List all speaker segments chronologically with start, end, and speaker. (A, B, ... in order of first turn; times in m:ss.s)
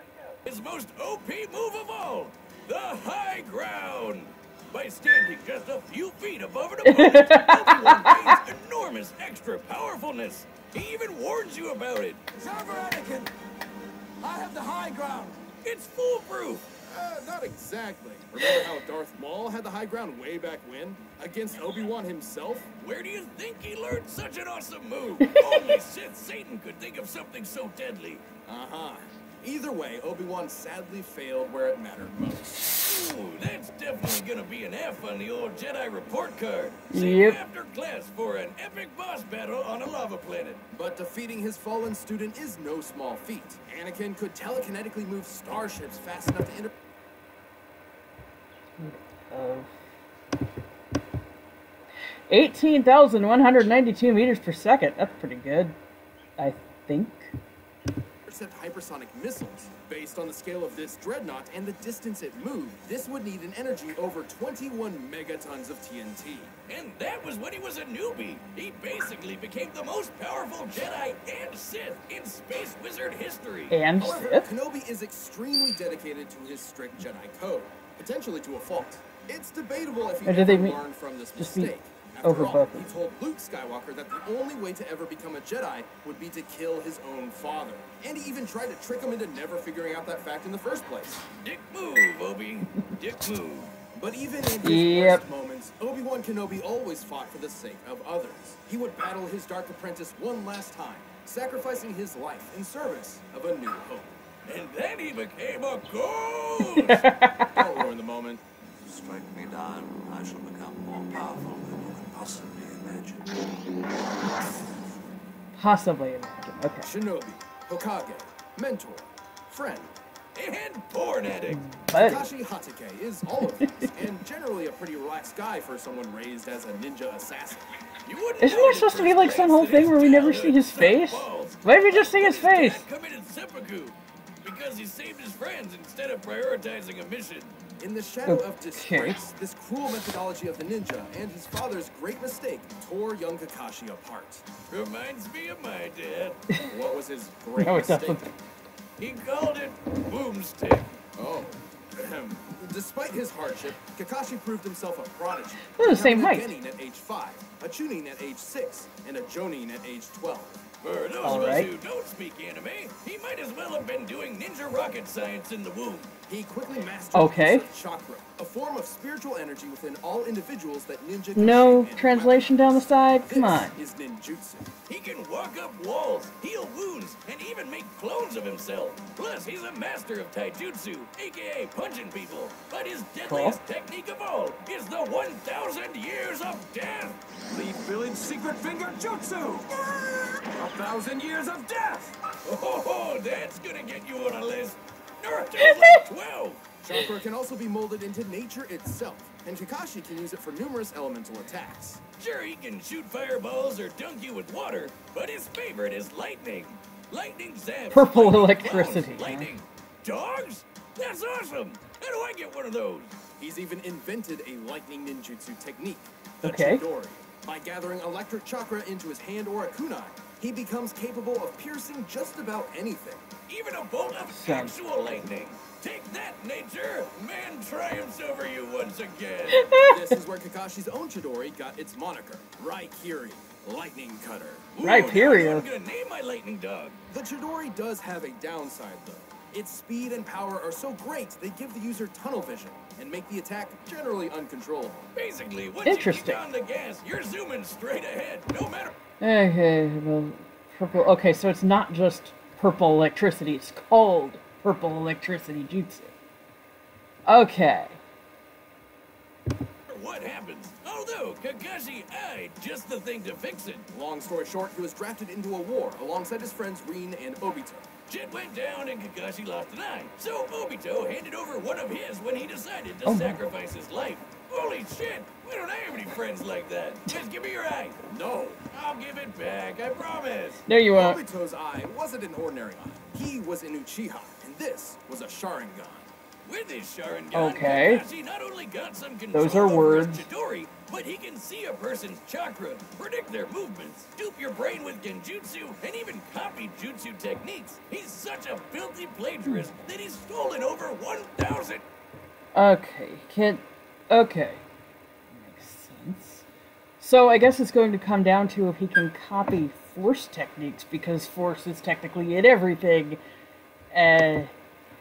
0:00.4-0:12.2 A
0:06.8-0:08.4 B
0:12.4-0:13.3 C
0:14.2-0:15.4 C
0:15.6-0:16.7 A
0:16.8-0:22.8 C
0:22.8-0:28.2 A
0:25.2-0:25.7 B
0:28.4-0:32.6 C
0:32.7-0:40.6 A
0:36.9-0:37.4 B
0:40.7-0:46.7 C
0:48.8-0:49.7 B
0:52.3-0:55.7 B
0:56.4-0:57.3 B
0:58.2-1:06.5 C
1:06.7-1:13.7 A
1:13.7-1:14.5 B
1:14.0-1:31.2 C
1:20.2-1:20.8 B
1:21.4-1:21.7 B
1:22.2-1:22.9 B
1:31.4-1:33.7 A
1:33.9-1:44.1 C
1:34.6-1:35.2 B
1:44.4-1:47.1 A
1:46.6-1:47.7 B
1:47.4-1:48.4 C
1:48.8-1:53.3 D
1:55.5-1:56.9 B
1:56.8-1:59.9 C
2:00.3-2:01.6 A
2:01.5-2:02.2 B
2:01.9-2:07.7 C
2:03.6-2:03.8 B
2:08.0-2:17.6 A
2:08.4-2:12.8 B
2:17.8-2:24.5 C
2:18.3-2:19.2 B
2:24.7-2:26.4 A
2:26.6-2:28.2 C
2:27.6-2:28.3 B
2:29.0-2:31.0 A
2:31.2-2:40.6 C
2:35.8-2:36.5 B
2:40.8-2:46.1 A
2:41.2-2:41.7 B
2:46.3-2:54.7 C
2:47.1-2:47.6 B
2:51.3-2:53.8 B
2:54.9-3:07.2 A
3:03.2-3:03.6 B
3:07.4-3:12.1 C
3:12.4-3:16.7 A
3:15.6-3:16.0 B
3:16.8-3:22.0 C
3:22.2-3:33.2 A
3:27.9-3:29.5 B
3:33.4-3:43.3 C
3:36.4-3:36.8 B
3:43.5-3:49.7 A
3:44.3-3:44.8 B
3:49.5-3:50.2 B
3:49.8-3:54.8 C
3:54.7-3:57.0 A
3:54.8-3:55.6 B
3:57.1-4:05.1 C
4:05.1-4:08.9 A
4:05.8-4:06.4 B
4:09.2-4:16.1 B
4:17.3-4:18.0 B
4:19.9-4:23.9 A
4:23.9-4:27.9 C
4:28.1-4:38.0 A
4:33.0-4:33.4 B
4:38.1-4:38.7 C
4:38.7-4:40.6 A
4:40.6-4:41.2 B
4:40.9-4:46.1 C
4:46.4-5:01.8 A
4:47.3-4:48.0 B
4:49.3-4:50.2 B
5:02.5-5:04.6 B
5:05.3-5:06.4 B
5:07.0-5:13.2 B
5:13.9-5:14.5 B